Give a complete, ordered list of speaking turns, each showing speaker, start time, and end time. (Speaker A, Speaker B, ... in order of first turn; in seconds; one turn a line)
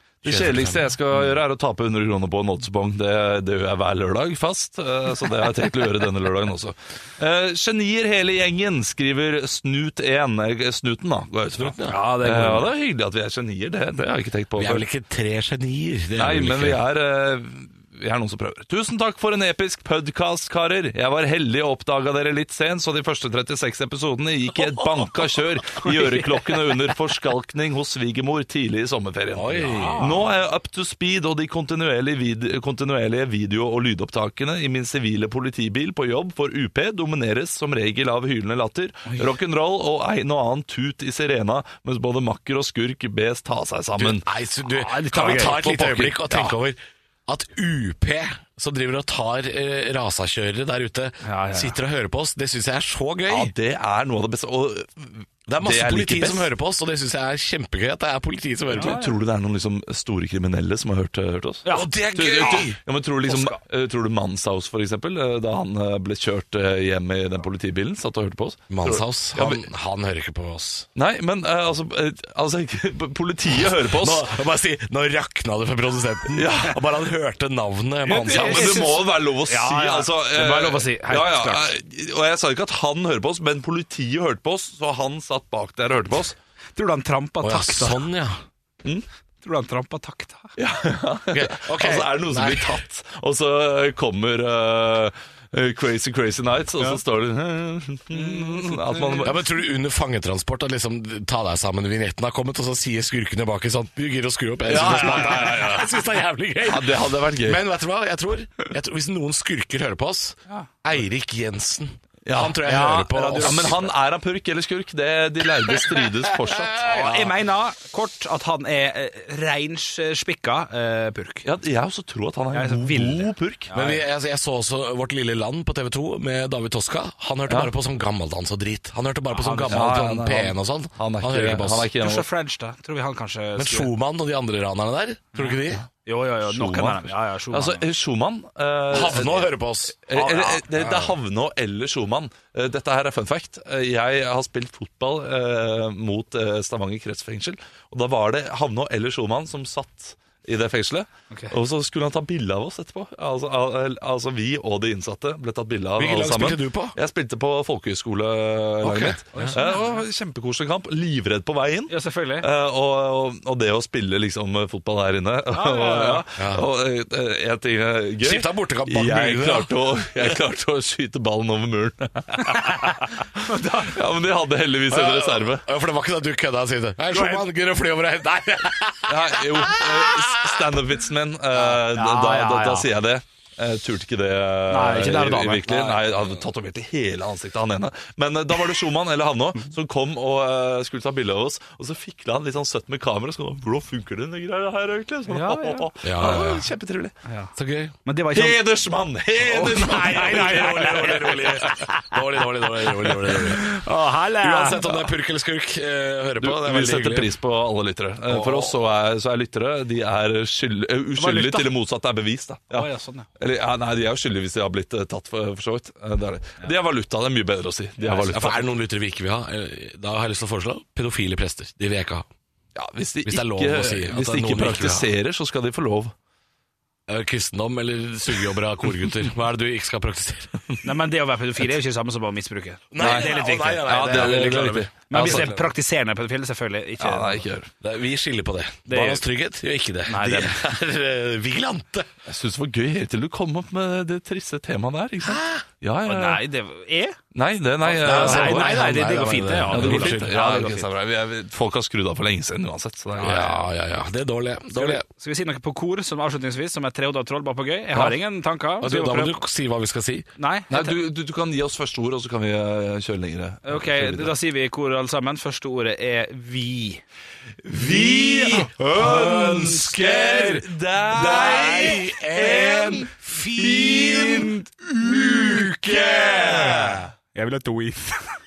Speaker A: 0.2-14.8
Speaker B: 0.2-0.8
Speaker B: 11.5-12.0
Speaker C: 11.9-12.7
Speaker B: 14.6-16.8
Speaker A: 16.2-44.3
Speaker B: 29.3-30.1
Speaker C: 29.7-30.2
Speaker B: 44.0-53.5
Speaker C: 44.7-46.5
Speaker C: 51.2-51.8
Speaker A: 53.3-56.5
Speaker B: 55.5-59.0
Speaker C: 58.7-59.1
Speaker A: 58.8-69.7
Speaker C: 61.6-62.6
Speaker B: 61.7-62.8
Speaker C: 63.3-63.6
Speaker B: 68.7-70.9
Speaker A: 71.0-74.3
Speaker B: 73.8-79.0
Speaker A: 76.3-76.8
Speaker C: 78.0-81.7
Speaker A: 78.2-86.4
Speaker C: 86.8-88.0
Speaker B: 87.4-88.4
Speaker C: 89.4-90.5
Speaker A: 90.6-99.3
Speaker B: 91.3-92.8
Speaker C: 98.1-99.3
Speaker B: 99.2-113.9
Speaker A: 104.7-106.0
Speaker C: 104.8-105.4
Speaker A: 106.6-107.6
Speaker A: 112.3-112.7
Speaker C: 112.7-113.8
Speaker A: 113.4-117.1
Speaker B: 115.7-117.3
Speaker C: 117.0-121.5
Speaker A: 121.4-123.7
Speaker C: 122.5-124.0
Speaker B: 123.7-131.9
Speaker C: 129.3-130.0
Speaker A: 129.7-132.3
Speaker C: 132.0-133.9
Speaker B: 133.6-135.8
Speaker C: 136.1-137.8
Speaker A: 136.4-139.5
Speaker B: 138.9-140.0
Speaker A: 140.1-175.7
Speaker C: 140.1-140.7
Speaker B: 140.7-141.2
Speaker B: 156.0-157.0
Speaker B: 158.8-159.6
Speaker C: 159.3-160.0
Speaker C: 161.9-162.5
Speaker C: 165.5-166.2
Speaker B: 166.4-166.7
Speaker B: 168.2-169.7
Speaker B: 174.9-180.7
Speaker A: 179.1-197.1
Speaker C: 181.5-182.9
Speaker C: 184.7-185.9
Speaker B: 186.0-186.4
Speaker C: 195.3-195.9
Speaker B: 196.0-196.7
Speaker C: 197.3-197.5
Speaker B: 197.6-198.0
Speaker C: 198.1-198.6
Speaker A: 198.3-200.8
Speaker B: 199.4-203.8
Speaker C: 199.5-202.2
Speaker C: 203.3-204.9
Speaker B: 204.3-207.3
Speaker A: 206.4-218.7
Speaker B: 208.3-208.8
Speaker C: 211.2-211.7
Speaker C: 212.7-213.3
Speaker B: 218.0-222.3
Speaker A: 222.8-226.1
Speaker B: 223.2-225.1
Speaker B: 227.1-230.5
Speaker C: 230.8-234.5
Speaker B: 232.9-235.7
Speaker A: 233.0-235.5
Speaker C: 235.1-237.5
Speaker A: 237.0-237.7
Speaker B: 237.8-242.1
Speaker C: 238.9-239.2
Speaker C: 240.1-240.6
Speaker A: 242.3-246.4
Speaker B: 245.2-245.6
Speaker C: 246.1-247.2
Speaker A: 247.3-248.8
Speaker C: 247.8-250.9
Speaker B: 248.0-250.3
Speaker A: 249.7-253.7
Speaker B: 253.2-255.1
Speaker C: 254.7-259.4
Speaker B: 258.8-260.3
Speaker C: 260.4-260.9
Speaker A: 260.7-264.3
Speaker C: 263.6-267.0
Speaker A: 267.6-274.5
Speaker B: 267.8-277.0
Speaker C: 276.0-278.2
Speaker A: 276.1-277.0